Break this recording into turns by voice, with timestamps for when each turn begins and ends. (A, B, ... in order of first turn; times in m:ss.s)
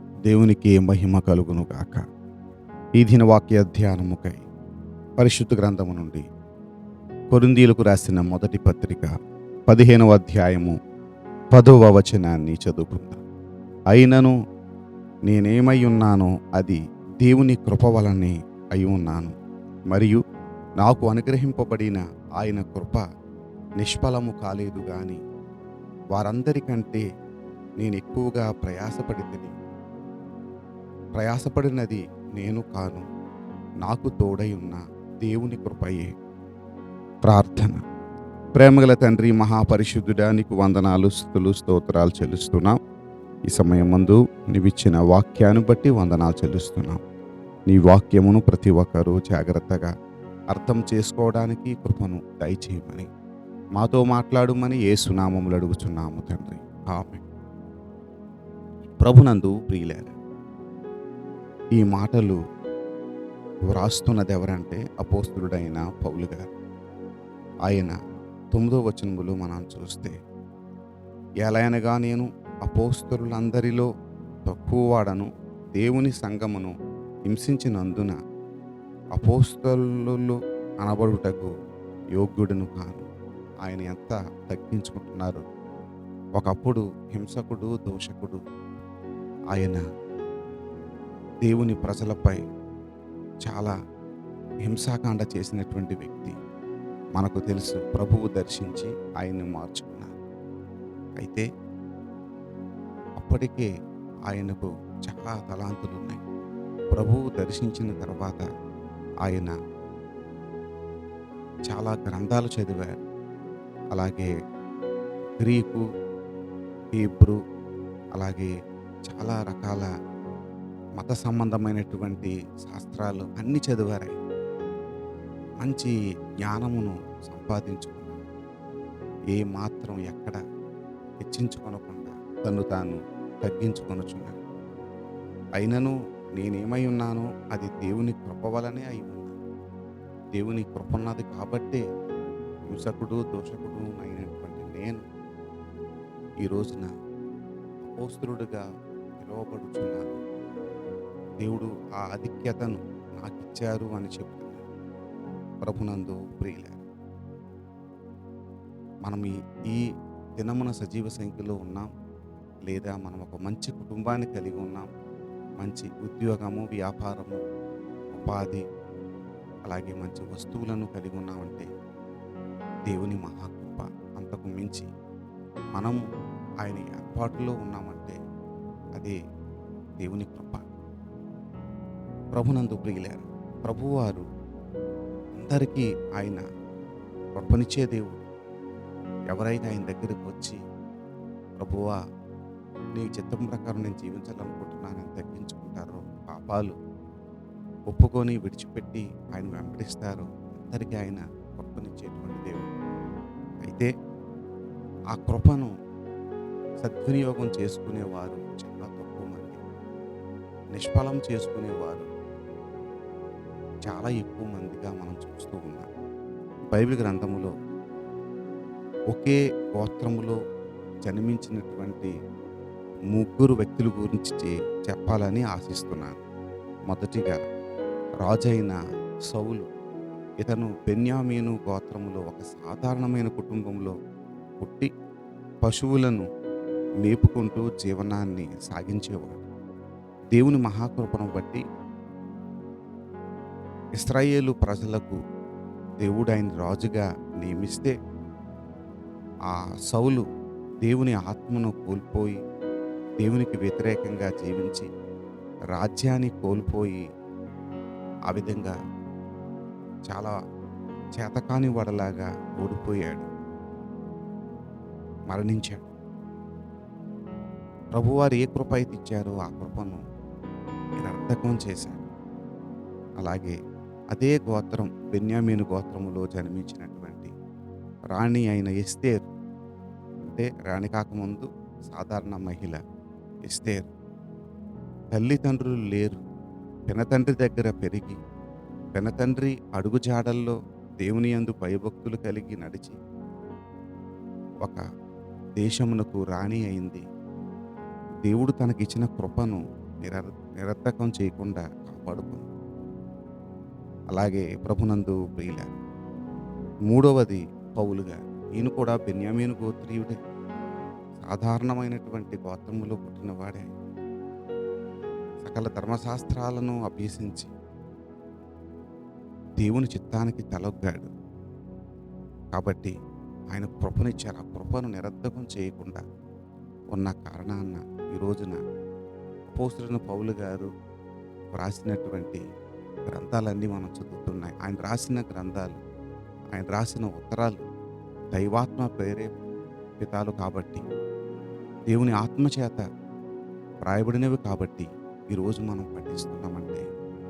0:00.3-0:02.0 A
0:03.0-0:04.5 A
0:05.2-0:06.2 A
0:07.3-0:09.1 A
0:09.7-0:10.8 A
0:11.5-0:13.2 A
0:13.9-0:14.4 A
0:15.3-0:19.3 A
0:19.9-0:20.2 A
0:20.8-0:23.0 A
0:23.8-0:25.2 A
0:26.1-0:27.0 A
0:27.8-0:29.5 A
0:31.1-0:33.0 A
0:33.8-0:36.1 A
0:37.3-0:37.8 A
0:38.6-0:42.8 A
0:43.5-0:47.0 A
0:47.7-0:49.9 A
0:50.5-0:53.1 A
0:53.8-0:57.2 A
0:59.0-1:00.2 A
1:01.8-1:02.4 A
1:03.7-1:06.5 A
1:07.7-1:08.0 A
1:08.5-1:10.2 A
1:11.4-1:13.9 A
1:14.5-1:16.7 A
1:17.3-1:18.2 A
1:19.2-1:21.5 A
1:22.2-1:23.1 A
1:23.6-1:25.4 A
1:26.4-1:28.4 A
1:29.5-1:29.8 A
1:31.4-1:32.4 A
1:33.4-1:33.7 A
1:34.7-1:36.4 A
1:37.2-1:40.1 A
1:41.2-1:41.5 A
1:43.2-1:43.7 A
1:44.3-1:46.2 A
1:46.9-1:48.4 A
1:49.2-1:49.6 A
1:51.7-1:53.0 A
1:53.9-1:54.3 A
1:55.4-1:55.8 A
1:56.9-1:57.4 A
1:58.2-1:58.5 A
1:59.1-1:59.9 A
2:01.0-2:04.2 A
2:05.6-2:08.2 A
2:09.3-2:10.4 A
2:11.2-2:14.4 A
2:15.6-2:19.4 A
2:20.3-2:21.8 A
2:22.7-2:25.0 A
2:26.4-2:26.9 A
2:27.8-2:28.6 A
2:29.2-2:30.2 A
2:31.4-2:34.7 A
2:35.6-2:36.8 A
2:39.0-2:39.8 A
2:40.4-2:41.9 A
2:42.7-2:44.9 A
2:45.6-2:47.4 A
2:48.2-2:48.6 A
2:49.7-2:51.7 A
2:52.9-2:54.9 A
2:55.8-2:56.0 A
2:56.6-2:58.2 A
3:00.0-3:00.7 A
3:02.3-3:04.2 A
3:05.3-3:06.4 A
3:07.4-3:08.3 A
3:09.3-3:10.6 A
3:11.6-3:12.0 A
3:13.0-3:16.8 A
3:17.9-3:22.7 A
3:23.6-3:23.9 A
3:25.1-3:25.7 A
3:26.8-3:29.6 A
3:30.7-3:32.1 A
3:33.9-3:35.9 A
3:36.7-3:37.5 A
3:39.1-3:40.4 A
3:41.0-3:42.1 A
3:43.1-3:46.2 A
3:46.9-3:47.5 A
3:48.2-3:48.8 A
3:49.3-3:49.7 A
3:50.4-3:54.0 A
3:54.6-3:54.9 A
3:55.6-3:56.3 A
3:57.0-3:59.5 A
4:00.3-4:01.6 A
4:04.0-4:05.2 A
4:06.0-4:08.0 A
4:09.5-4:10.2 A
4:10.8-4:12.4 A
4:13.2-4:14.9 A
4:15.7-4:17.0 A
4:18.3-4:18.8 A
4:21.2-4:23.3 A
4:25.3-4:25.9 A
4:27.9-4:30.0 A
4:31.0-4:32.1 A
4:33.2-4:33.6 A
4:34.1-4:37.3 A
4:38.1-4:39.3 A
4:40.3-4:42.8 A
4:43.5-4:43.9 A
4:45.1-4:46.2 A
4:46.9-4:48.2 A
4:48.9-4:53.0 A
4:55.6-4:57.0 A
4:58.2-5:02.5 A
5:04.1-5:05.8 A
5:06.9-5:10.2 A
5:11.2-5:13.7 A
5:15.4-5:17.5 A
5:19.6-5:21.1 A
5:22.5-5:22.9 A
5:23.5-5:26.0 A
5:26.9-5:28.6 A
5:29.5-5:30.7 A
5:31.6-5:32.4 A
5:33.1-5:35.8 A
5:36.5-5:37.6 A
5:38.3-5:39.4 A
5:40.0-5:40.8 A
5:41.9-5:42.8 A
5:43.8-5:46.8 A